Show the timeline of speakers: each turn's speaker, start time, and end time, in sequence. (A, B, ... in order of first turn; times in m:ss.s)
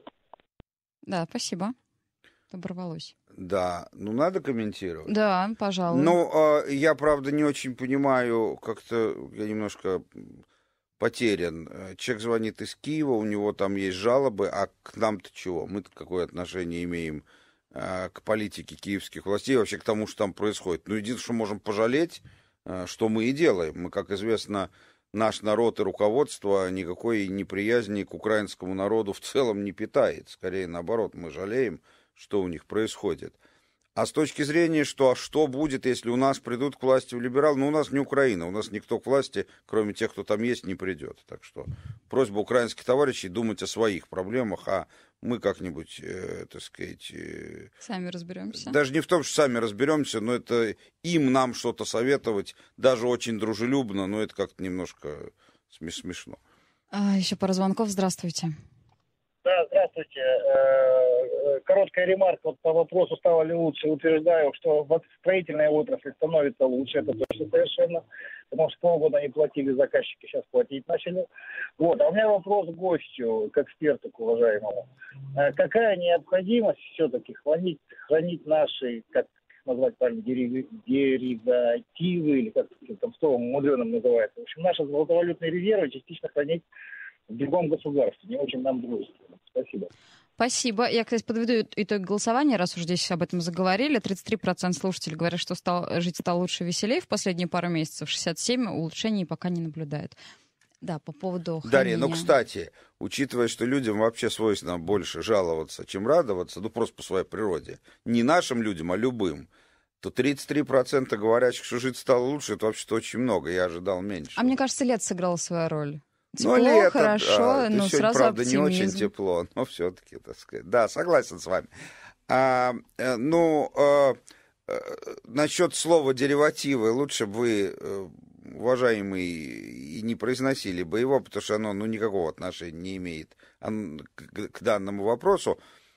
0:01.1-0:01.8 A
0:02.5-0:03.1 A
0:03.3-0:05.1 B
0:05.1-0:06.2 A
0:05.9-0:10.4 B
0:11.0-0:33.4 B
0:34.0-0:47.7 B
0:47.8-0:48.8 A
0:48.5-0:56.4 B
0:56.9-0:58.5 A
0:59.4-1:11.3 C
1:11.8-1:26.6 C
1:27.3-1:29.9 C
1:30.4-1:40.2 A
1:40.8-1:42.3 A
1:41.6-1:49.5 B
1:50.0-1:54.5 B
1:54.4-1:59.1 A
1:56.4-2:01.7 B
2:02.3-2:15.6 B